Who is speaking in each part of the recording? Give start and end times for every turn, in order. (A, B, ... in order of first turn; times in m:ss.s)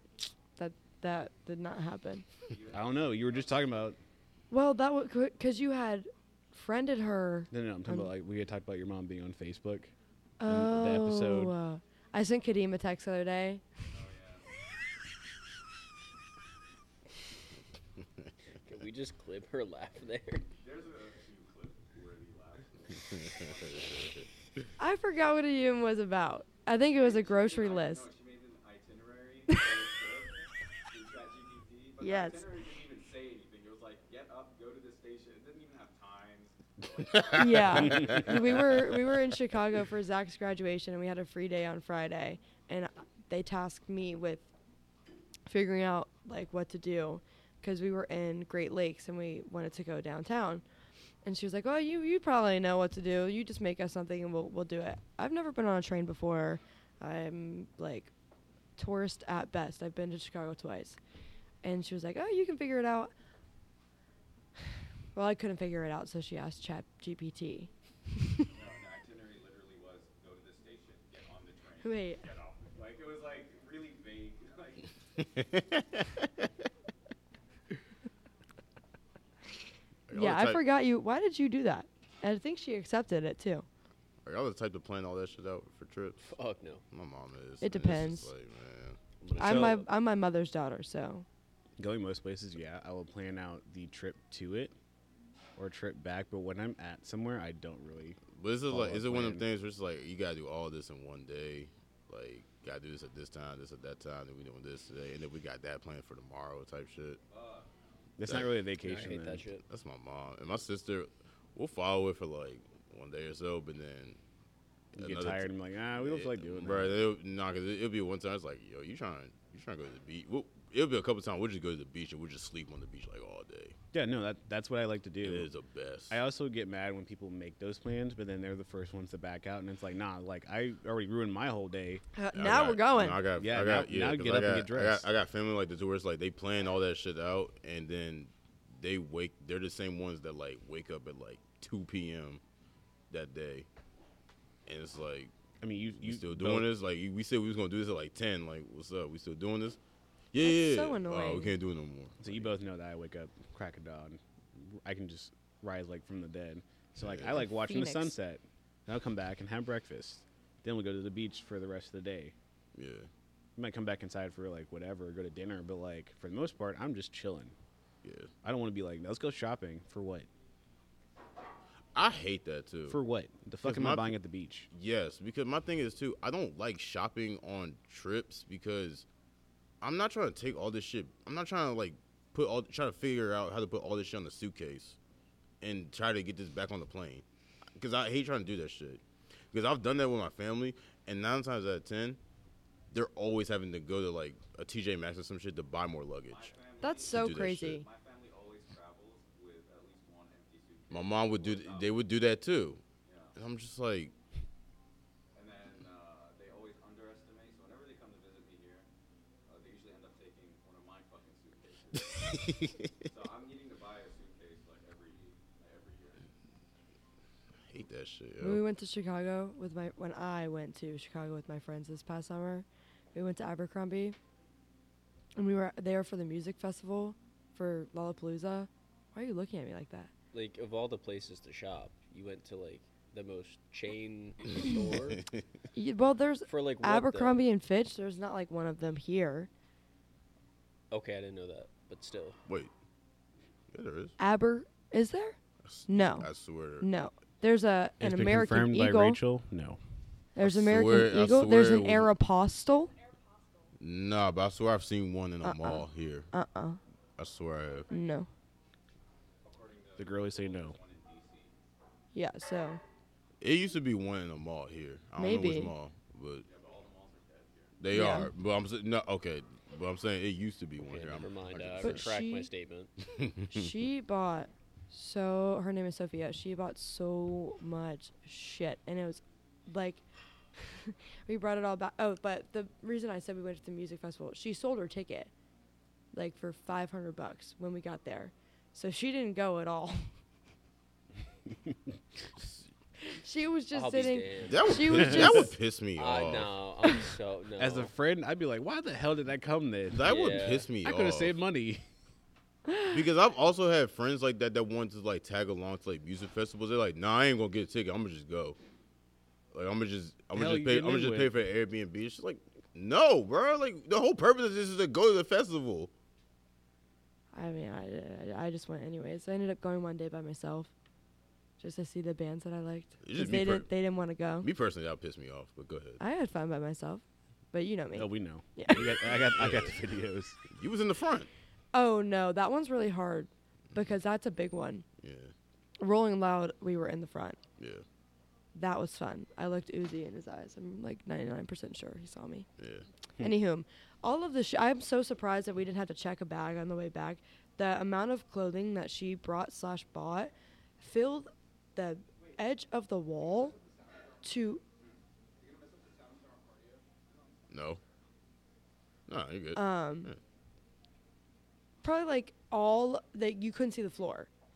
0:00.6-0:02.3 A
0:02.5-0:04.0 B
0:02.7-0:04.0 C
0:04.5-0:08.1 A
0:07.5-0:09.9 C
0:10.4-0:13.6 A
0:10.4-0:11.6 C
0:13.9-0:14.6 B
0:18.6-0:20.5 D
0:20.6-0:24.1 B
0:23.1-0:24.3 E
0:24.8-0:28.1 A
0:26.9-0:39.0 B
0:32.0-0:32.5 A
0:37.1-0:38.4 E
0:37.3-0:44.5 A
0:45.5-0:50.6 A
0:51.2-0:58.1 A
0:58.8-1:01.0 A
1:01.6-1:03.1 A
1:05.2-1:07.7 A
1:08.5-1:14.9 B
1:11.8-1:12.2 A
1:15.4-1:16.1 E
1:20.1-1:20.6 E
1:20.1-1:23.7 A
1:24.2-1:26.3 E
1:26.2-1:26.8 D
1:26.9-1:29.0 E
1:27.6-1:28.3 A
1:29.2-1:29.9 D
1:29.4-1:31.3 A
1:29.4-1:29.8 C
1:31.8-1:34.8 C
1:35.6-1:39.4 C
1:38.3-1:47.2 E
1:47.3-1:48.0 B
1:48.2-1:49.5 C
1:48.2-1:48.5 E
1:48.8-1:49.6 D
1:49.7-1:54.2 E
1:54.9-1:57.0 C
1:55.0-2:03.8 E
2:03.9-2:05.5 C
2:05.2-2:06.2 E
2:06.1-2:12.0 C
2:12.2-2:13.2 A
2:12.3-2:22.4 E
2:13.4-2:15.1 C
2:23.1-2:23.7 E
2:24.7-2:25.3 E
2:25.6-2:26.7 C
2:26.0-2:29.8 E
2:30.3-2:32.5 E
2:30.4-2:31.6 A
2:32.2-2:42.4 C
2:37.0-2:37.4 E
2:37.3-2:38.1 A
2:42.8-2:43.1 E
2:43.6-2:47.6 C
2:48.0-2:48.3 E
2:48.4-2:50.3 C
2:52.0-2:53.0 E
2:52.9-2:54.7 C
2:53.6-2:54.2 E
2:54.7-2:59.1 E
2:59.8-3:05.0 E
3:05.6-3:07.2 E
3:07.8-3:12.2 E
3:12.9-3:16.5 E
3:16.3-3:22.0 B
3:16.8-3:17.9 A
3:17.1-3:17.8 E
3:20.9-3:22.8 E
3:23.0-3:23.4 B
3:23.4-3:24.1 E
3:25.4-3:28.9 B
3:29.5-3:36.3 B
3:32.3-3:32.8 E
3:37.7-3:38.6 E
3:38.4-3:44.2 A
3:45.4-3:50.1 A
3:50.3-3:55.2 D
3:55.1-3:55.4 E
3:55.7-3:59.5 A
3:56.5-3:57.4 D
4:00.9-4:02.4 D
4:03.7-4:04.2 E
4:04.2-4:06.3 A
4:05.6-4:06.9 E
4:06.8-4:09.2 A
4:08.0-4:09.8 C
4:10.4-4:12.9 A
4:10.4-4:12.1 E
4:13.8-4:16.3 E
4:15.4-4:16.8 A
4:17.2-4:17.9 E
4:17.9-4:18.3 A
4:19.4-4:21.6 B
4:20.0-4:20.8 C
4:22.1-4:22.8 A
4:23.4-4:26.5 E
4:25.2-4:25.7 A
4:26.4-4:27.8 B
4:27.8-4:32.1 E
4:27.9-4:28.3 A
4:30.8-4:32.9 D
4:31.8-4:32.5 A
4:33.1-4:33.7 E
4:33.5-4:40.0 A
4:40.6-4:45.3 A
4:46.1-4:50.0 A
4:53.0-4:55.5 A
4:53.7-4:55.1 D
4:54.5-4:56.5 E
4:56.0-4:57.9 D
4:57.6-5:01.8 C
4:59.9-5:01.4 E
5:00.0-5:00.7 D
5:02.7-5:03.0 A
5:02.9-5:08.6 E
5:09.5-5:15.9 E
5:10.3-5:11.4 C
5:17.3-5:20.7 A
5:21.6-5:24.5 A
5:23.0-5:23.7 E
5:24.4-5:26.0 E
5:26.0-5:28.9 A
5:27.9-5:30.4 C
5:28.8-5:29.8 E
5:30.5-5:31.3 E
5:31.7-5:34.8 A
5:35.0-5:35.3 E
5:35.8-5:37.4 A
5:37.6-5:37.8 E
5:38.6-5:42.5 A
5:42.6-5:42.9 E
5:43.2-5:53.6 A
5:54.2-5:54.6 A
5:55.4-5:57.2 B
5:57.5-5:57.8 E
5:59.1-6:00.2 E
5:59.6-6:00.1 A
6:01.8-6:04.3 A